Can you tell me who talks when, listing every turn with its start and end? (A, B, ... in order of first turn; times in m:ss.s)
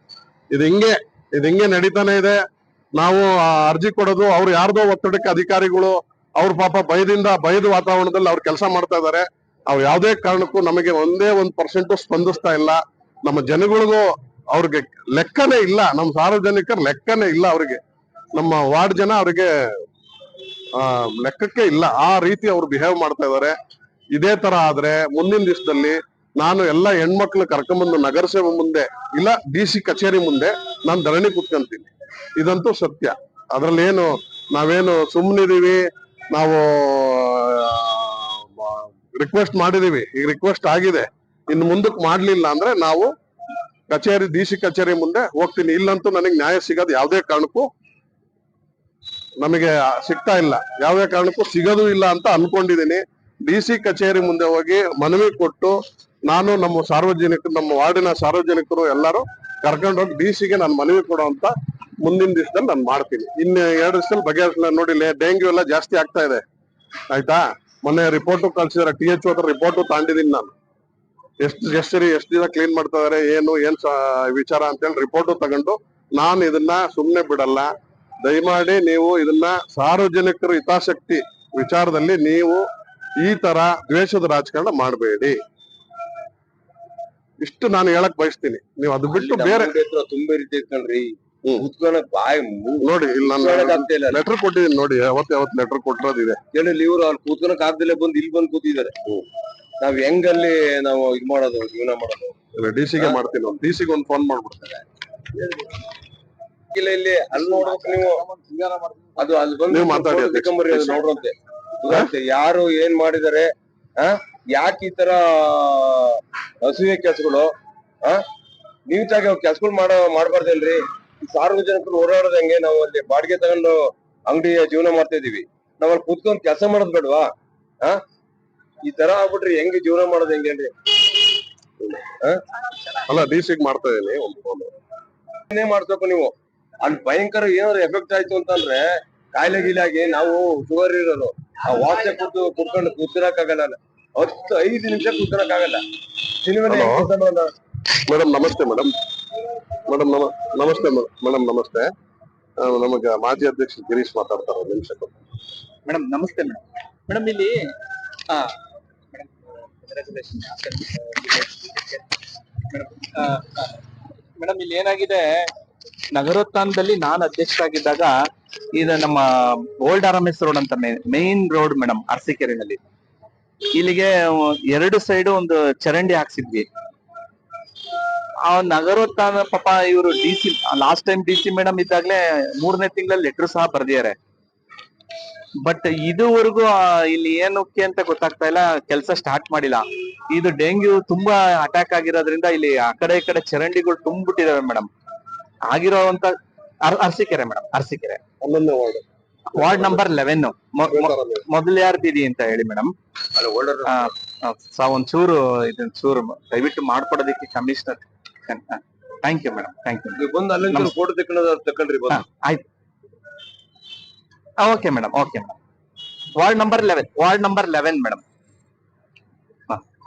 0:00.5-0:02.4 A
0:02.9-0:17.8 A
0:18.3-0:19.5 A
0:20.8-0:23.6 A
0:24.1-0:43.1 A
0:43.9-0:47.7 A
0:49.4-0:55.8 A
0:56.3-1:06.4 A
1:07.1-1:10.5 A
1:11.4-1:17.7 A
1:18.2-1:22.6 A
1:23.2-1:25.4 A
1:27.4-1:29.7 A
1:29.1-1:34.2 B
1:32.8-1:36.4 A
1:36.5-1:38.9 B
1:39.8-1:42.3 B
1:42.6-1:44.8 A
1:45.4-1:45.7 B
1:46.7-1:48.2 B
1:47.3-1:49.3 C
1:49.2-1:57.5 B
1:49.7-1:51.0 A
1:58.9-2:07.3 B
2:08.8-2:10.7 B
2:13.1-2:14.7 A
2:15.5-2:25.8 B
2:26.4-2:27.5 B
2:26.7-2:27.1 A
2:28.1-2:28.9 A
2:29.9-2:31.9 A
2:32.6-2:35.2 A
2:35.8-2:37.6 C
2:38.3-2:38.6 C
2:39.8-2:42.0 C
2:42.7-2:43.7 C
2:44.4-2:45.5 C
2:46.1-2:48.1 C
2:48.7-2:52.8 C
2:53.7-2:56.6 C
2:58.5-3:04.2 C
3:05.6-3:14.9 C
3:15.7-3:18.2 C
3:18.4-3:19.0 A
3:19.5-3:22.9 C
3:19.5-3:20.0 A
3:20.9-3:21.4 A
3:23.3-3:24.1 B
3:23.8-3:30.9 C
3:30.2-3:32.2 B
3:32.1-3:32.6 C
3:34.6-3:35.6 C
3:36.4-3:38.2 C